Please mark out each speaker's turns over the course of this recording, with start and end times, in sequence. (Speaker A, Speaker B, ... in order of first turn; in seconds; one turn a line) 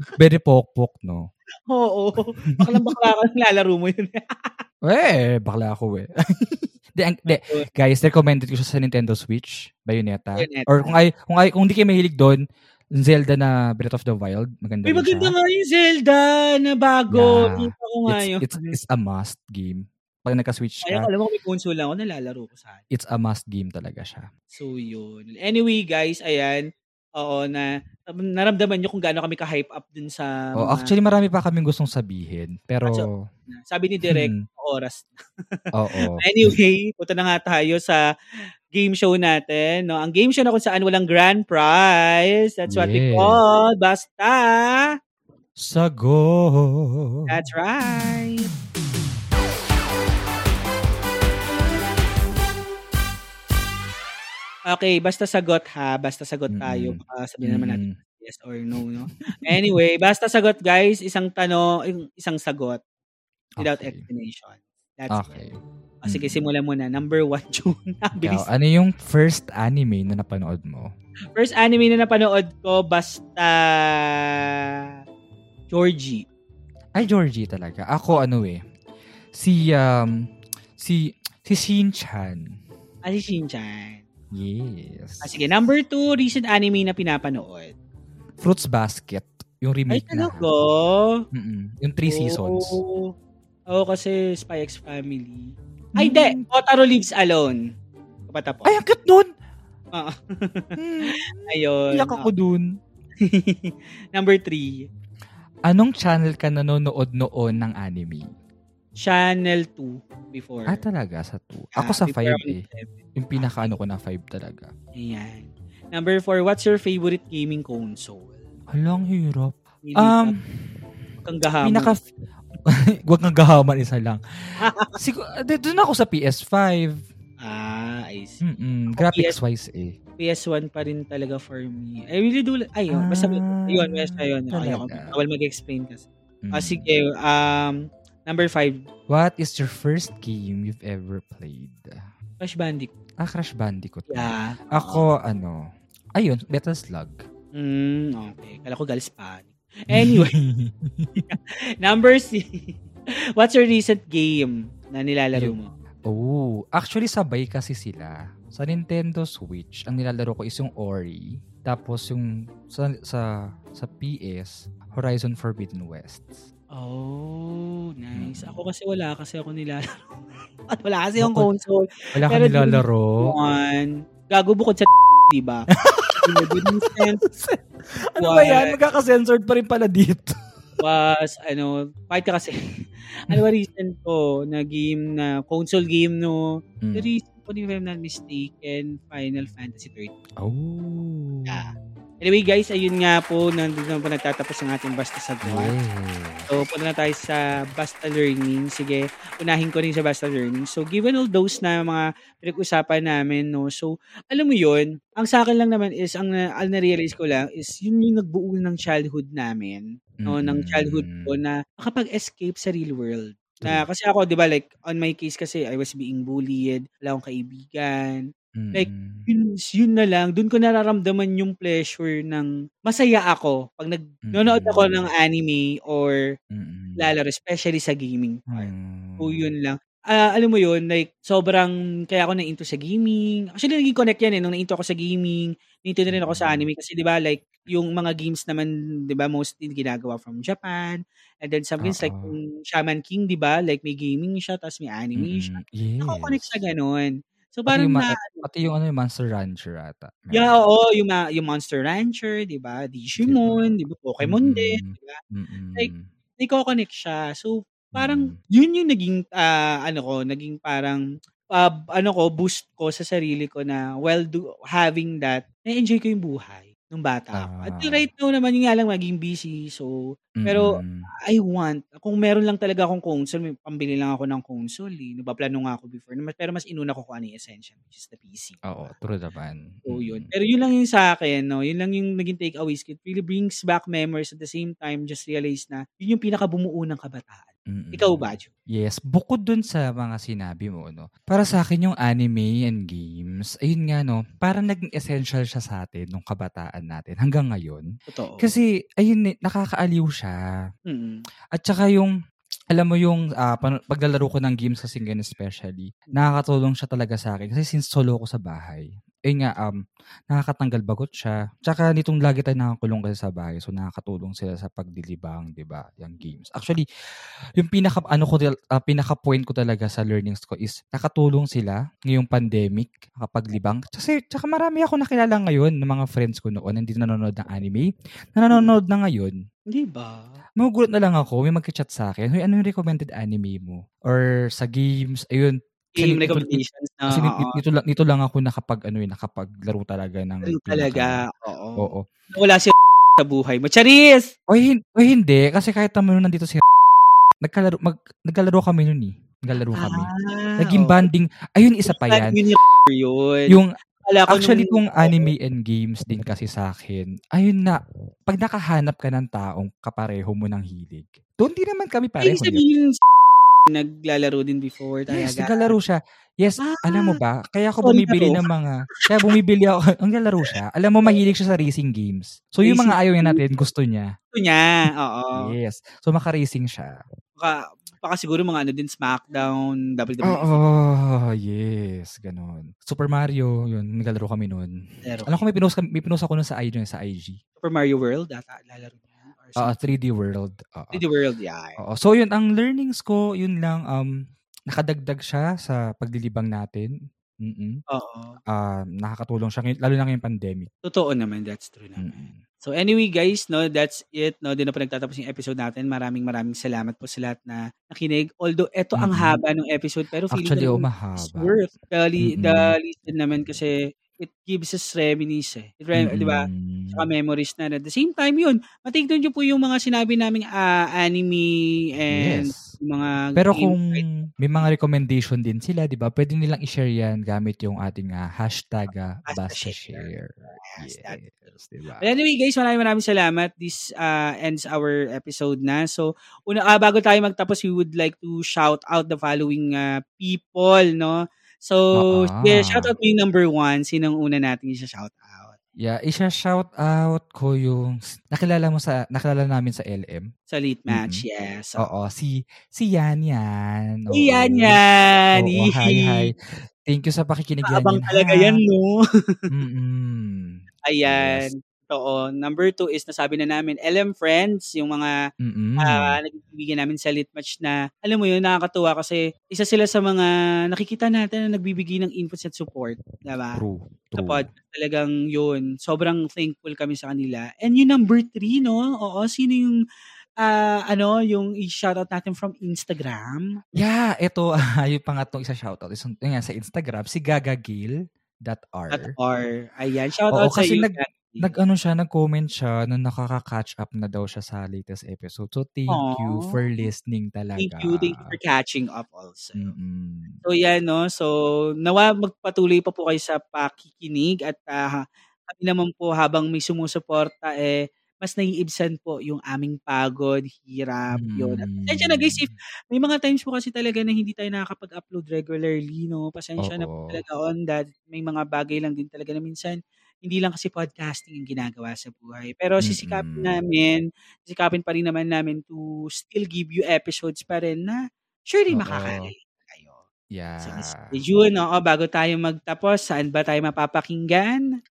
Speaker A: 0.2-1.3
Speaker B: 1.7-4.5
Speaker A: 4.8-6.1
Speaker A: 7.0-12.4
Speaker B: 7.3-7.7
Speaker B: 10.4-11.0
Speaker A: 13.0-15.3
Speaker B: 14.8-18.7
Speaker A: 17.1-21.1
Speaker B: 20.9-22.8
Speaker A: 22.9-24.3
Speaker B: 24.5-30.9
Speaker A: 30.6-33.1
Speaker B: 32.9-35.1
Speaker A: 34.1-34.4
Speaker A: 35.7-36.5
Speaker B: 36.0-38.0
Speaker B: 38.7-44.9
Speaker A: 42.7-43.4
Speaker A: 45.6-47.4
Speaker B: 47.3-48.5
Speaker B: 54.7-62.8
Speaker A: 56.5-58.0
Speaker A: 63.6-64.0
Speaker B: 63.6-65.4
Speaker A: 65.1-66.4
Speaker B: 66.0-68.5
Speaker A: 68.2-70.9
Speaker B: 71.3-74.6
Speaker B: 75.7-76.2
Speaker A: 77.0-78.6
Speaker A: 79.3-80.2
Speaker A: 80.8-82.6
Speaker B: 83.0-84.0
Speaker A: 84.3-85.4
Speaker B: 85.2-87.8
Speaker A: 88.4-90.5
Speaker B: 89.9-91.2
Speaker A: 91.3-92.8
Speaker B: 92.1-93.1
Speaker B: 93.7-97.6
Speaker A: 96.0-96.5
Speaker B: 98.3-98.8
Speaker A: 98.7-99.3
Speaker B: 99.9-102.3
Speaker A: 100.8-102.8
Speaker B: 103.2-104.9
Speaker A: 105.7-108.3
Speaker B: 109.0-110.8
Speaker A: 110.7-112.6
Speaker B: 111.8-113.7
Speaker A: 113.2-114.7
Speaker B: 115.0-118.4
Speaker A: 118.7-120.9
Speaker B: 119.8-120.4
Speaker B: 121.2-122.0
Speaker A: 121.6-122.0
Speaker A: 122.7-127.0
Speaker B: 124.6-125.0
Speaker B: 127.4-128.4
Speaker A: 128.4-130.0
Speaker B: 129.0-129.4
Speaker B: 130.2-138.8
Speaker A: 132.9-135.2
Speaker A: 136.5-136.9
Speaker A: 139.1-142.0
Speaker B: 142.4-142.9
Speaker A: 143.2-145.6
Speaker B: 144.1-145.1
Speaker A: 146.2-147.2
Speaker B: 147.6-150.3
Speaker A: 149.9-151.3
Speaker B: 151.2-152.8
Speaker B: 153.4-155.7
Speaker A: 156.1-166.4
Speaker B: 166.7-170.2
Speaker A: 168.2-168.6
Speaker B: 170.7-175.7
Speaker A: 171.2-171.5
Speaker A: 172.2-173.3
Speaker A: 175.8-177.6
Speaker B: 176.2-177.2
Speaker A: 178.1-180.4
Speaker B: 178.2-178.8
Speaker B: 180.8-182.6
Speaker B: 183.3-186.4
Speaker A: 186.8-187.1
Speaker B: 186.9-190.1
Speaker A: 190.4-191.8
Speaker B: 192.2-195.7
Speaker A: 195.4-196.5
Speaker B: 196.5-226.2
Speaker A: 210.2-211.3
Speaker A: 218.6-219.3
Speaker A: 224.3-225.1
Speaker A: 226.5-227.1
Speaker B: 227.0-248.5
Speaker A: 228.5-229.5
Speaker A: 236.1-236.7
Speaker A: 241.8-242.4
Speaker A: 245.2-246.5
Speaker A: 247.7-250.6
Speaker B: 250.3-255.2
Speaker A: 253.2-253.6
Speaker A: 254.2-256.1
Speaker B: 255.8-269.9
Speaker A: 257.9-258.4
Speaker A: 267.4-268.1
Speaker A: 270.4-271.1
Speaker B: 270.4-278.7
Speaker A: 278.7-280.3
Speaker B: 279.9-288.5
Speaker A: 287.7-288.2
Speaker A: 288.8-297.9
Speaker B: 298.1-298.5
Speaker A: 298.4-300.4
Speaker B: 300.9-301.2
Speaker A: 301.6-302.1
Speaker A: 302.7-309.8
Speaker A: 310.3-316.9
Speaker A: 317.6-329.4
Speaker B: 329.7-330.4
Speaker A: 330.6-341.2
Speaker B: 336.0-337.6
Speaker B: 340.4-344.3
Speaker A: 341.8-342.1
Speaker A: 344.5-346.6
Speaker A: 347.4-352.4
Speaker B: 349.7-351.1
Speaker B: 351.9-355.3
Speaker A: 354.3-362.6
Speaker B: 362.2-363.0
Speaker B: 363.7-365.7
Speaker A: 365.1-374.1
Speaker B: 366.6-367.2
Speaker B: 367.8-368.4
Speaker B: 369.0-369.3
Speaker B: 372.6-373.6
Speaker B: 374.3-375.6
Speaker A: 375.4-376.9
Speaker B: 377.4-380.6
Speaker A: 380.2-384.7
Speaker B: 385.1-385.5
Speaker A: 385.3-387.4
Speaker B: 387.6-389.8
Speaker A: 389.6-391.0
Speaker B: 390.9-391.8
Speaker A: 391.8-394.1
Speaker A: 394.7-396.9
Speaker A: 397.4-397.8
Speaker B: 397.9-398.4
Speaker A: 398.5-400.7
Speaker B: 400.8-424.1
Speaker A: 402.0-402.4
Speaker A: 409.0-409.4
Speaker A: 410.3-411.6
Speaker A: 412.2-412.8
Speaker A: 416.0-417.1
Speaker A: 422.1-422.6
Speaker A: 423.4-432.1
Speaker B: 429.3-431.4
Speaker B: 432.0-445.6
Speaker A: 442.0-442.9
Speaker A: 445.8-450.3
Speaker B: 450.5-451.9
Speaker A: 450.9-451.2
Speaker A: 451.8-454.8
Speaker B: 454.1-456.2
Speaker A: 455.4-458.6
Speaker B: 457.6-459.0
Speaker A: 459.5-461.5
Speaker B: 460.9-465.1
Speaker A: 465.4-466.2
Speaker B: 465.8-473.6
Speaker A: 473.5-474.5
Speaker B: 474.2-479.8
Speaker B: 480.4-483.6
Speaker A: 483.7-487.9
Speaker A: 488.4-489.1
Speaker B: 488.9-491.6
Speaker A: 490.3-498.3
Speaker B: 495.9-496.6
Speaker B: 497.6-499.7
Speaker A: 499.6-500.4
Speaker B: 500.4-530.0
Speaker A: 511.2-512.5
Speaker A: 516.6-517.2
Speaker A: 522.8-523.6
Speaker A: 528.7-529.3
Speaker A: 530.4-531.1
Speaker B: 530.6-534.7